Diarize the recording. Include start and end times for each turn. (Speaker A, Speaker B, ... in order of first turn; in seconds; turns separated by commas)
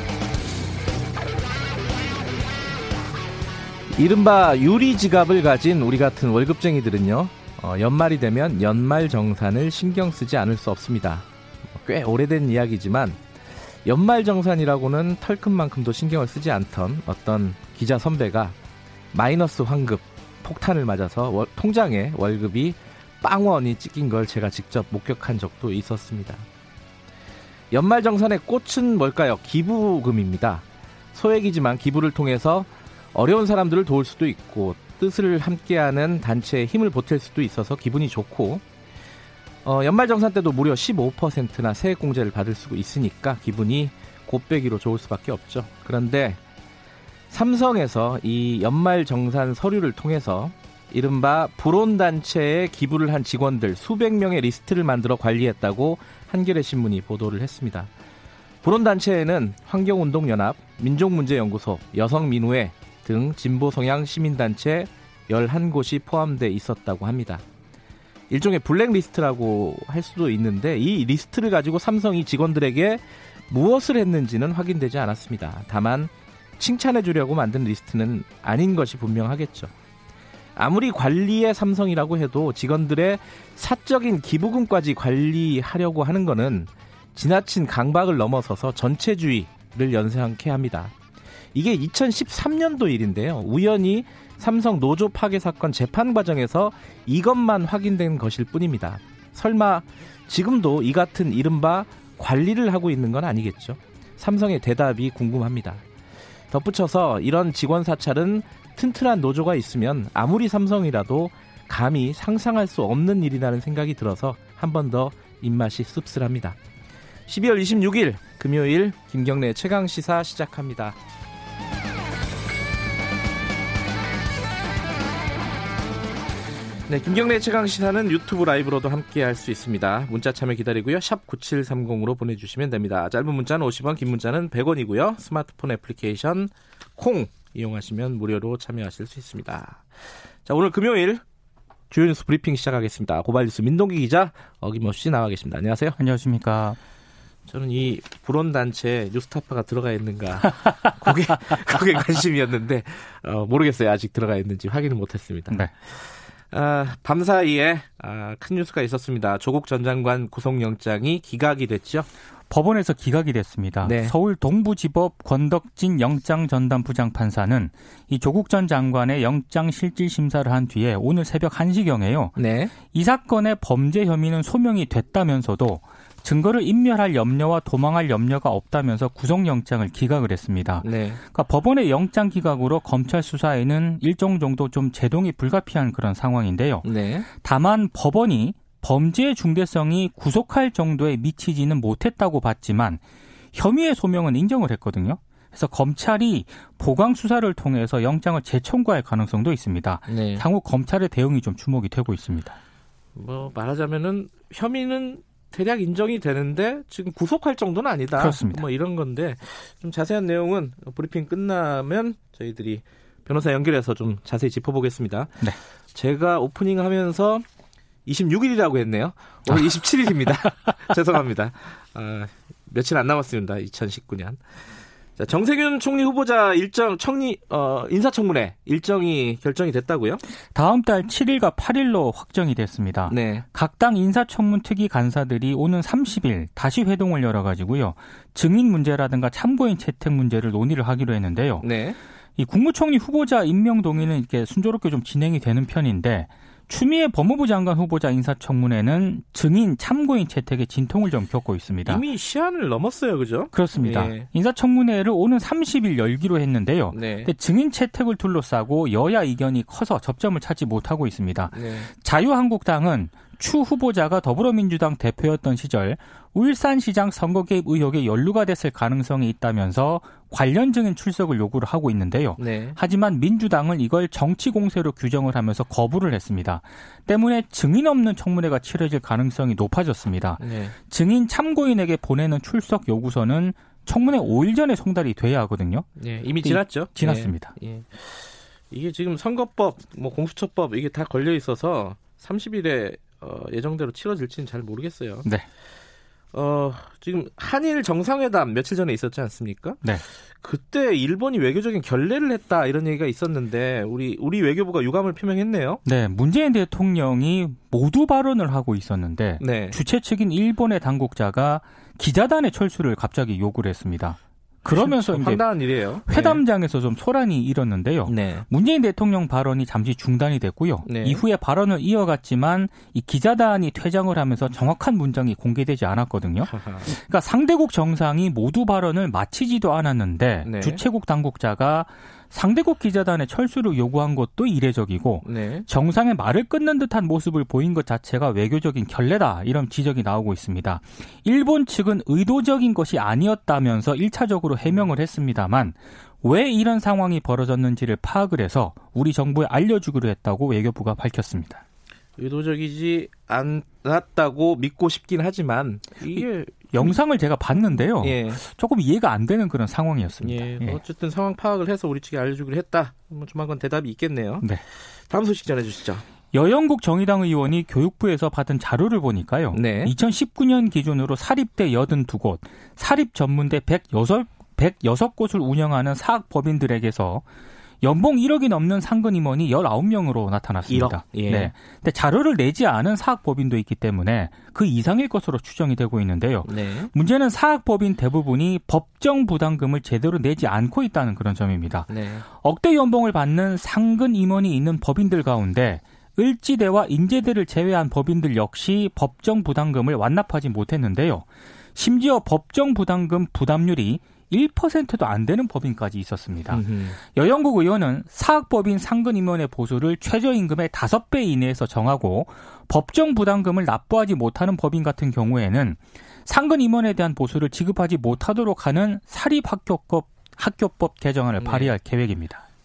Speaker A: 4.0-13.2, Speaker A: 13.8-18.6, Speaker A: 19.1-26.4, Speaker A: 27.7-38.6, Speaker A: 39.6-46.4, Speaker A: 47.3-57.9, Speaker A: 58.6-67.4, Speaker A: 68.3-79.7, Speaker A: 80.6-90.9, Speaker A: 91.5-105.8, Speaker A: 106.5-116.6, Speaker A: 117.3-121.0, Speaker A: 126.9-141.2, Speaker A: 141.9-146.0, Speaker B: 146.0-146.8, Speaker A: 147.5-162.1, Speaker B: 162.5-193.0, Speaker A: 163.8-164.1, Speaker A: 172.3-172.7, Speaker A: 180.8-181.2, Speaker A: 186.8-187.3, Speaker B: 193.5-202.6, Speaker A: 200.1-200.4, Speaker A: 203.2-215.4, Speaker B: 208.2-208.6, Speaker A: 215.9-217.4, Speaker A: 218.1-230.2, Speaker B: 219.5-219.8, Speaker B: 220.3-220.7, Speaker B: 230.5-241.7, Speaker A: 233.1-233.4, Speaker A: 241.6-242.0, Speaker B: 242.4-252.0, Speaker A: 251.9-254.3, Speaker B: 253.5-287.5, Speaker A: 256.9-257.3, Speaker A: 261.5-261.9, Speaker A: 272.4-272.8, Speaker A: 280.4-280.8, Speaker A: 286.0-295.3, Speaker A: 296.3-299.8, Speaker A: 300.4-305.8, Speaker B: 305.9-351.6, Speaker A: 309.4-309.8, Speaker A: 314.7-316.4, Speaker A: 318.1-318.5, Speaker A: 320.9-321.2, Speaker A: 326.5-326.9, Speaker A: 330.4-330.8, Speaker A: 335.2-335.7, Speaker A: 352.2-357.0, Speaker B: 356.1-360.8, Speaker A: 358.0-358.4, Speaker A: 360.2-366.1, Speaker B: 366.3-377.2, Speaker A: 369.5-369.9, Speaker B: 377.8-422.4, Speaker A: 380.7-381.5, Speaker A: 386.4-386.9, Speaker A: 391.9-392.2, Speaker A: 406.5-407.0, Speaker A: 421.4-421.7